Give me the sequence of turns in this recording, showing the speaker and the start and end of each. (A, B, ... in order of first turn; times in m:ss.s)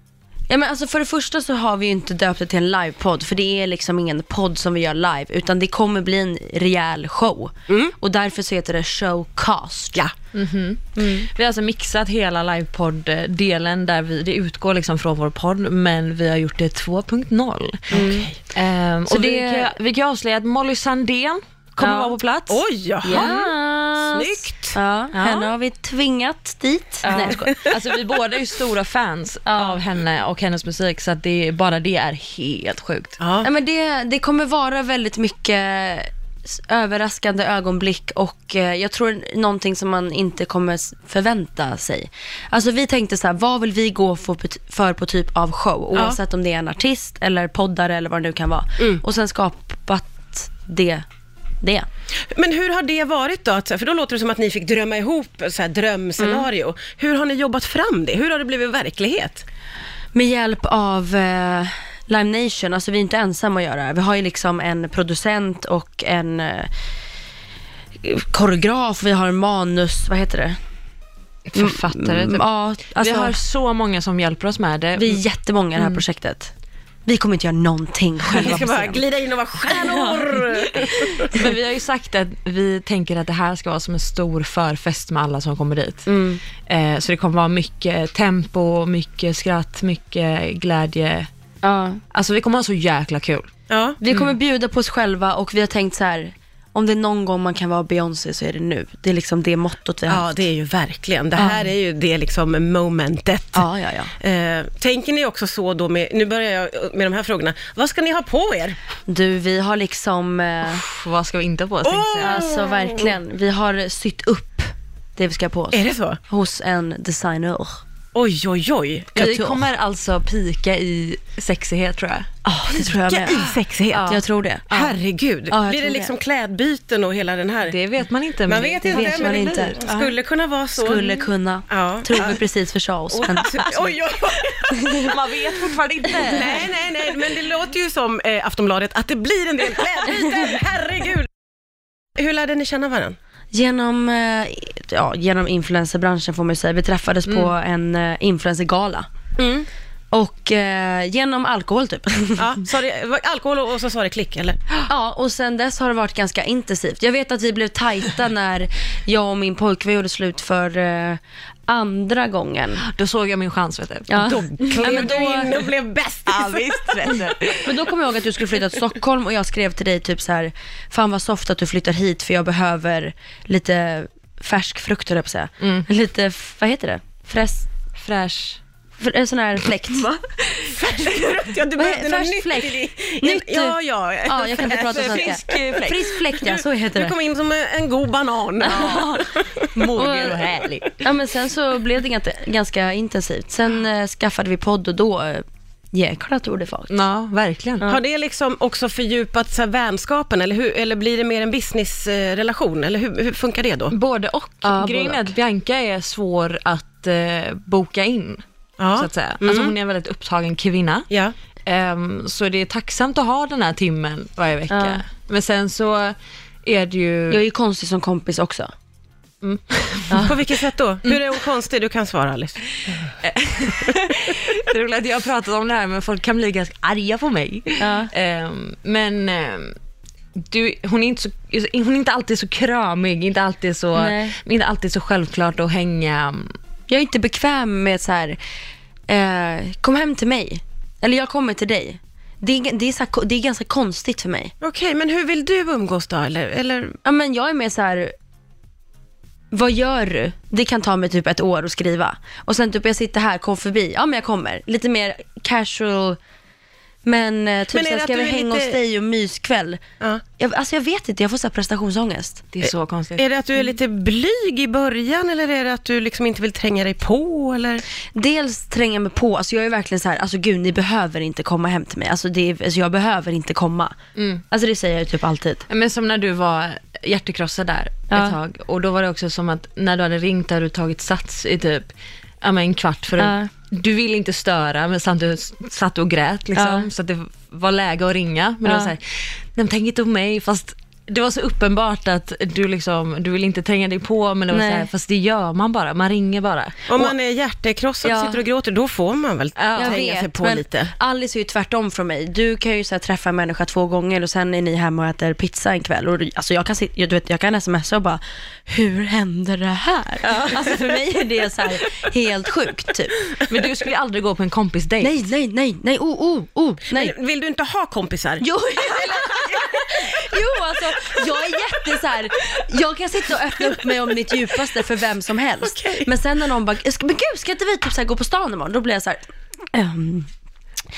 0:00.5-0:10.0 A
0:07.7-0:07.9 B
0:10.3-0:23.6 C
0:11.0-0:11.3 A
0:17.9-0:18.3 A
0:17.9-0:18.3 B
0:19.1-0:19.7 A
0:21.8-0:22.2 A
0:22.5-0:23.3 B
0:23.0-0:27.6 A
0:24.1-0:24.8 B
0:25.1-0:25.5 C
0:27.0-0:33.2 C
0:27.2-0:27.5 B
0:29.4-0:29.8 A
0:33.2-0:33.5 B
0:33.4-0:51.0 A
0:51.6-0:51.9 A
0:52.3-0:59.4 B
0:56.2-0:56.5 A
1:00.1-1:06.7 A
1:08.0-1:10.6 A
1:11.5-1:15.2 C
1:11.5-1:13.4 A
1:15.0-1:16.5 A
1:15.8-1:16.0 C
1:17.0-1:19.0 A
1:18.3-1:21.5 B
1:19.6-1:20.2 A
1:20.8-1:26.1 C
1:26.0-1:26.4 A
1:26.7-1:31.3 C
1:31.6-1:32.0 A
1:32.1-1:33.5 C
1:33.7-1:34.0 B
1:34.0-1:40.3 A
1:34.1-1:34.3 C
1:40.1-1:43.6 B
1:41.4-1:41.6 A
1:43.5-1:44.1 A
1:44.2-1:48.8 B
1:49.1-1:50.8 A
1:50.6-1:52.4 C
1:51.8-1:53.1 B
1:52.2-1:57.8 A
1:55.7-1:56.2 B
1:58.1-1:59.5 B
1:59.1-2:02.3 C
2:02.4-2:03.4 A
2:03.1-2:04.1 B
2:03.1-2:04.9 C
2:04.0-2:04.9 A
2:04.7-2:07.8 B
2:05.5-2:06.1 A
2:07.7-2:10.0 C
2:08.5-2:11.0 B
2:08.9-2:10.1 A
2:10.8-2:13.9 A
2:11.7-2:12.4 B
2:13.1-2:15.1 B
2:14.7-2:15.1 A
2:14.9-2:16.7 C
2:16.1-2:21.3 B
2:22.2-2:23.2 B
2:23.5-2:29.1 A
2:29.4-2:29.7 B
2:30.1-2:32.6 A
2:32.4-2:34.6 B
2:34.9-2:42.8 A
2:42.8-2:45.4 C
2:44.1-2:45.5 A
2:44.2-2:47.2 B
2:46.3-2:47.9 C
2:47.6-2:57.7 A
2:55.6-2:55.9 C
2:58.0-2:58.6 C
2:59.0-3:00.4 A
3:00.6-3:09.8 B
3:01.8-3:07.1 A
3:05.0-3:05.3 C
3:08.6-3:11.0 C
3:08.6-3:09.2 A
3:10.0-3:10.4 A
3:11.0-3:16.9 A
3:16.9-3:17.9 C
3:17.8-3:23.9 B
3:23.9-3:28.4 C
3:24.6-3:25.3 A
3:28.8-3:29.7 B
3:28.9-3:31.1 C
3:31.1-3:31.3 B
3:31.6-3:37.4 C
3:34.7-3:35.0 A
3:37.3-3:38.7 A
3:39.4-3:40.4 C
3:40.2-3:42.6 B
3:42.8-3:49.7 C
3:47.8-3:48.1 A
3:50.4-3:56.5 C
3:53.9-3:54.4 A
3:56.9-3:58.4 A
3:59.1-4:04.5 A
4:04.6-4:07.0 B
4:07.0-4:08.1 A
4:09.5-4:16.2 A
4:17.0-4:19.8 A
4:17.7-4:18.8 B
4:20.4-4:22.4 A
4:22.5-4:23.2 C
4:23.2-4:27.8 B
4:28.1-4:34.0 A
4:34.2-4:34.4 C
4:34.5-4:35.6 A
4:35.7-4:57.1 C
4:38.1-4:38.4 A
4:43.2-4:43.5 A
4:46.5-4:46.9 A
4:48.6-4:48.9 A
4:54.5-4:54.9 A
4:56.9-5:00.9 B
4:58.0-4:58.4 A
4:59.6-5:00.0 C
4:59.7-5:13.1 A
5:13.4-5:15.1 C
5:15.0-5:17.1 A
5:16.9-5:18.4 B
5:18.4-5:29.2 A
5:19.0-5:19.7 B
5:25.6-5:26.1 B
5:29.7-5:30.3 A